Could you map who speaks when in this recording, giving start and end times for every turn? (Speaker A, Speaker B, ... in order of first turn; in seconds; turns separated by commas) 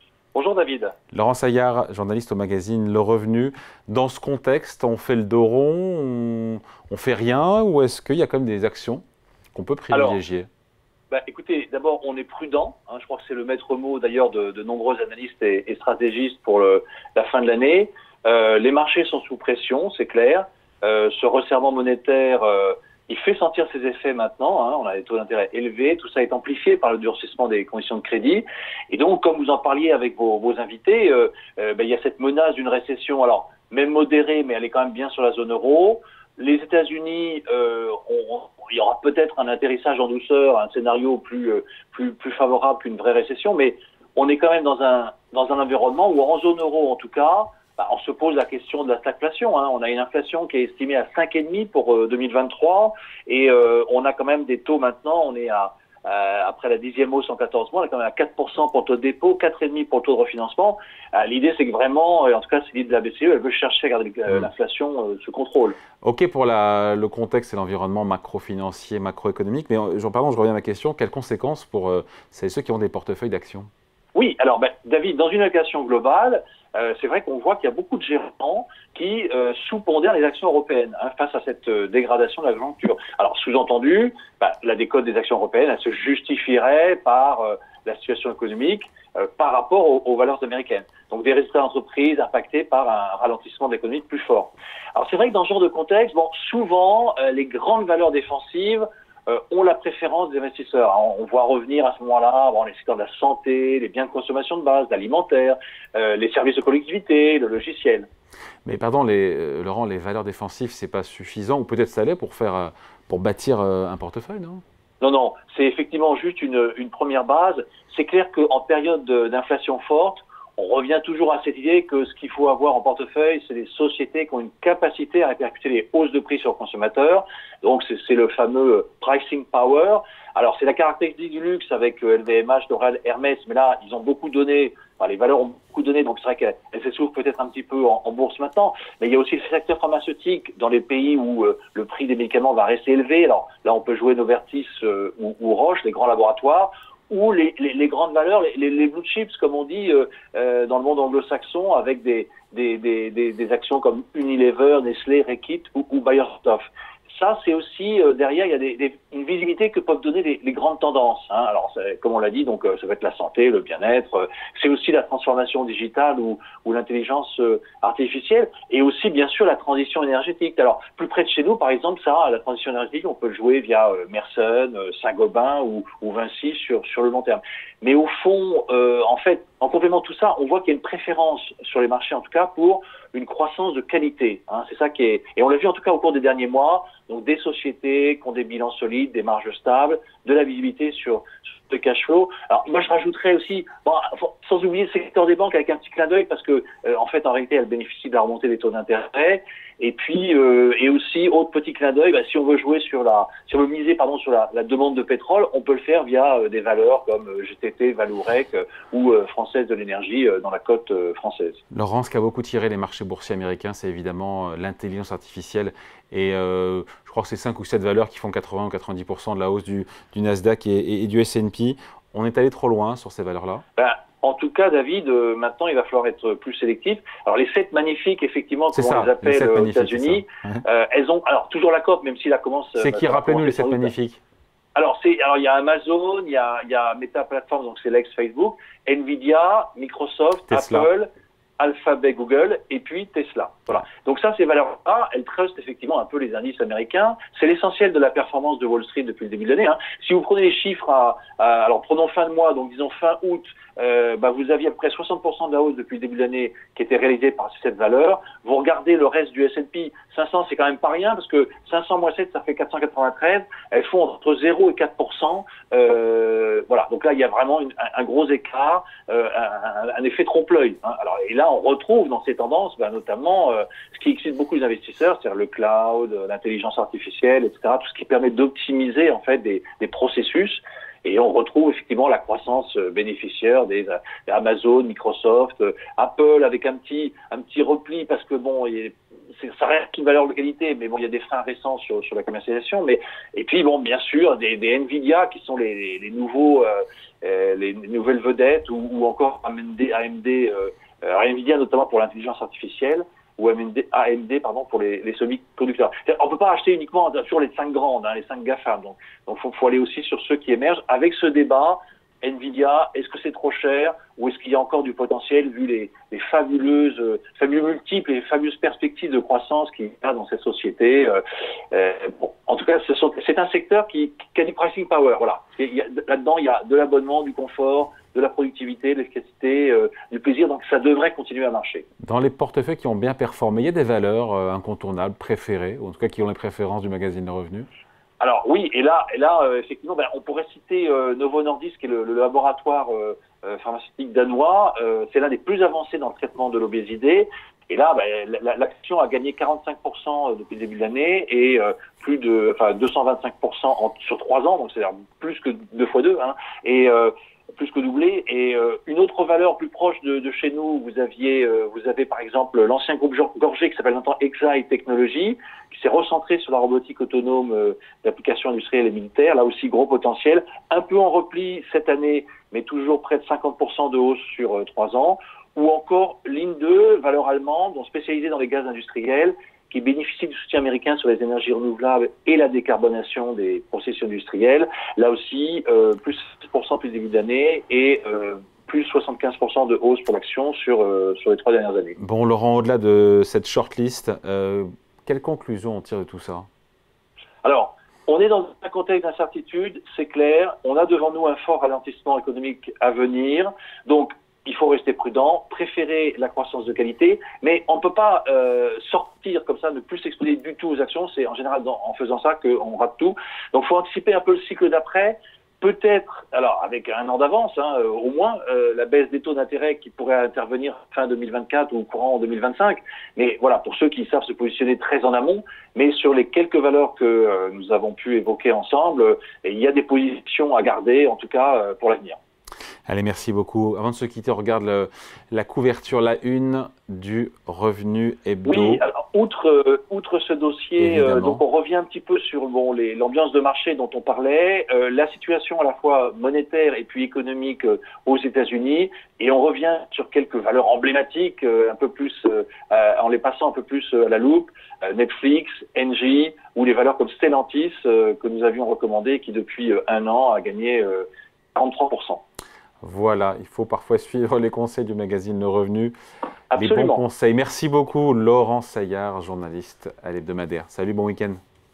Speaker A: 0.3-0.9, Speaker B: 1.1-9.0, Speaker B: 9.5-10.5, Speaker A: 9.9-10.2, Speaker A: 11.1-65.8, Speaker B: 66.0-73.7, Speaker A: 74.2-108.1, Speaker B: 108.7-114.6, Speaker A: 115.0-211.6, Speaker B: 211.7-223.6, Speaker A: 223.8-233.9, Speaker B: 228.7-230.6, Speaker B: 232.8-234.2, Speaker A: 234.8-321.2, Speaker B: 240.5-240.9, Speaker A: 321.7-331.9, Speaker B: 332.0-337.7, Speaker A: 338.2-392.0, Speaker B: 392.0-396.5, Speaker A: 397.4-432.2, Speaker B: 432.9-438.8, Speaker A: 438.5-462.2, Speaker B: 440.8-441.4, Speaker B: 462.8-465.9, Speaker A: 466.5-467.0, Speaker B: 466.6-471.4